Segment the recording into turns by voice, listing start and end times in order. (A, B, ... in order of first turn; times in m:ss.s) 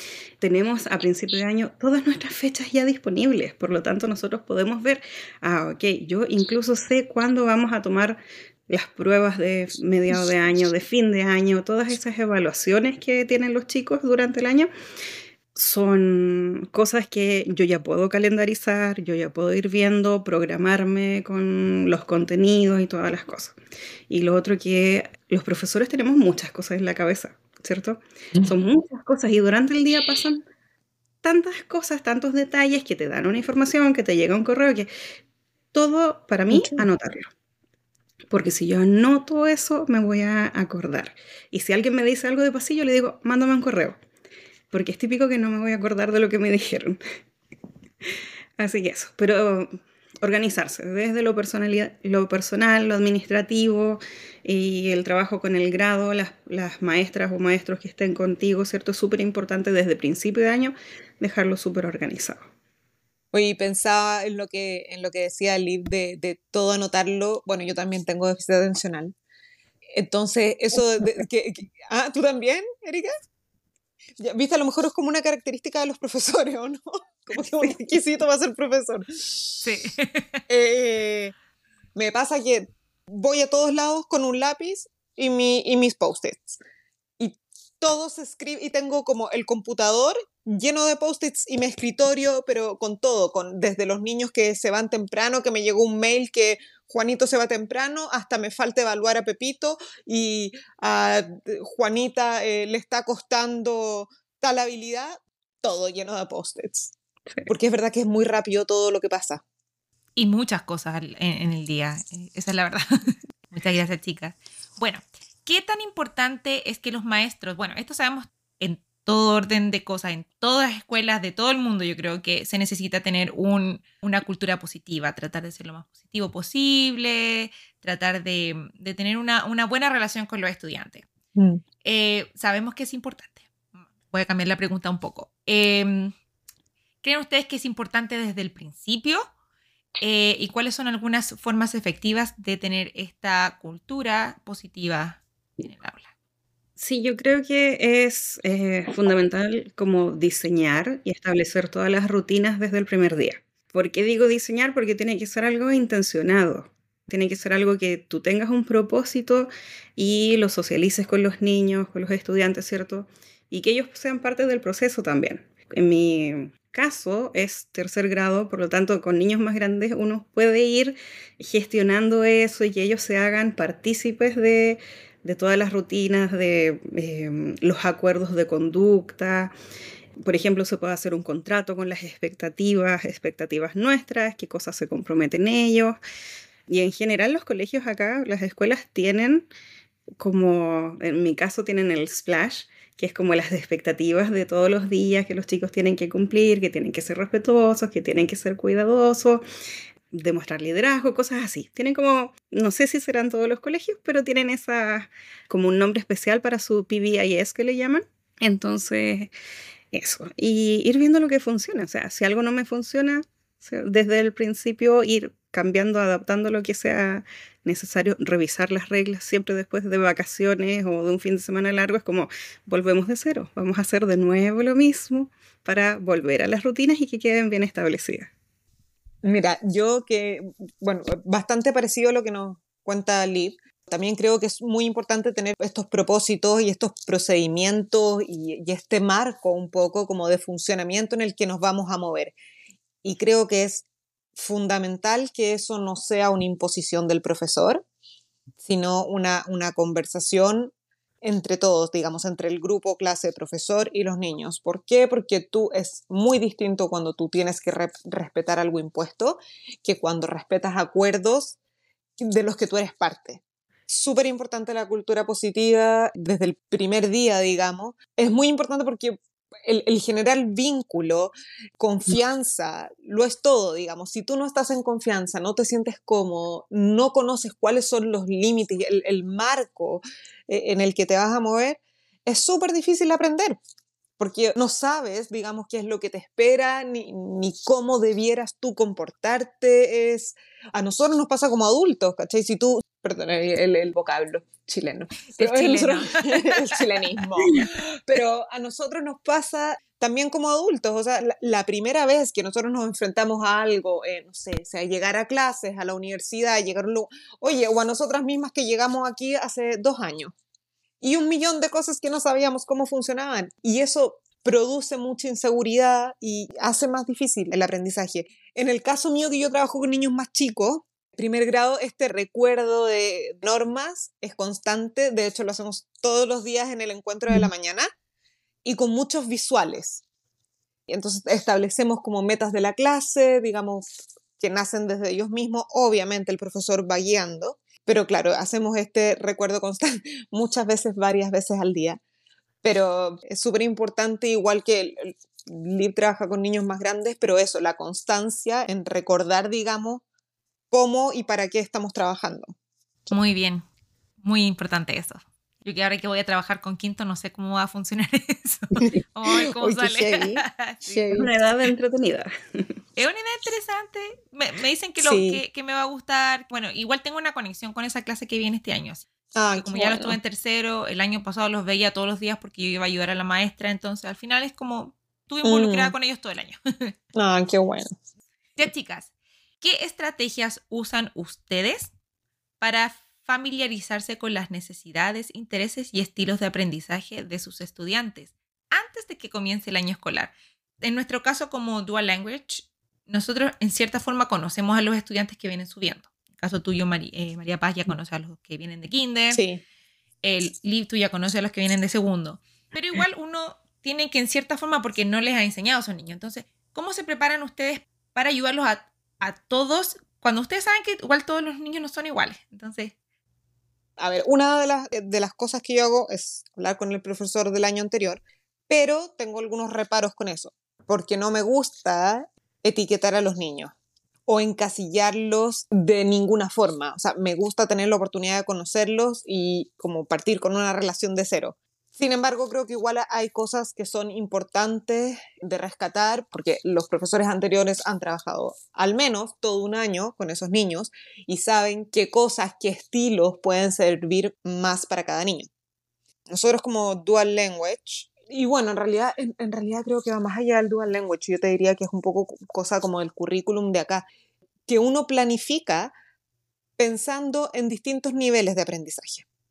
0:00.4-0:14.7 A
0:15.6-0:23.6 A
0:24.1-0:30.5 A
0:31.2-0:34.9 A
0:35.7-0:37.3 A
0:36.5-0:36.8 B
0:38.3-0:44.0 A
0:44.7-0:47.0 A
0:48.0-1:02.4 A
1:03.3-1:09.2 B
1:09.9-1:13.1 B
1:14.2-1:19.6 B
1:19.6-1:20.4 C
1:20.5-1:21.3 B
1:22.0-1:26.6 B
1:27.2-1:46.9 B
1:47.5-1:49.4 B
1:50.2-1:52.8 C
1:53.5-2:11.1 C
2:11.4-2:11.6 B
2:11.8-2:16.1 C
2:17.0-2:19.2 C
2:20.0-2:26.1 C
2:26.8-2:59.5 A
3:00.2-3:06.0 A
3:06.7-3:09.5 A
3:10.2-3:19.4 A
3:20.1-3:29.3 A
3:29.9-3:48.3 A
3:49.2-4:02.4 B
4:03.0-4:03.8 B
4:04.4-4:07.8 B
4:08.6-4:21.6 B
4:22.2-4:43.6 B
4:44.2-5:10.3 B
4:55.4-4:57.2 C
5:11.0-5:27.9 B
5:28.6-5:30.0 B
5:30.9-5:33.9 B
5:34.4-5:42.0 B
5:42.6-5:50.0 B
5:50.7-5:52.6 B
5:53.1-5:53.6 C
5:54.2-6:01.0 C
5:58.8-6:01.3 B
6:01.1-6:02.8 A
6:03.0-6:16.9 C
6:05.0-6:05.4 B
6:09.4-6:10.2 B
6:15.4-6:16.0 B
6:17.2-6:17.9 B
6:18.6-6:21.9 C
6:22.6-6:39.4 C
6:39.3-6:39.6 B
6:40.2-6:53.0 C
6:54.0-7:03.7 B
7:04.3-7:25.5 B
7:26.3-7:34.1 B
7:34.7-7:35.9 B
7:36.8-7:39.2 B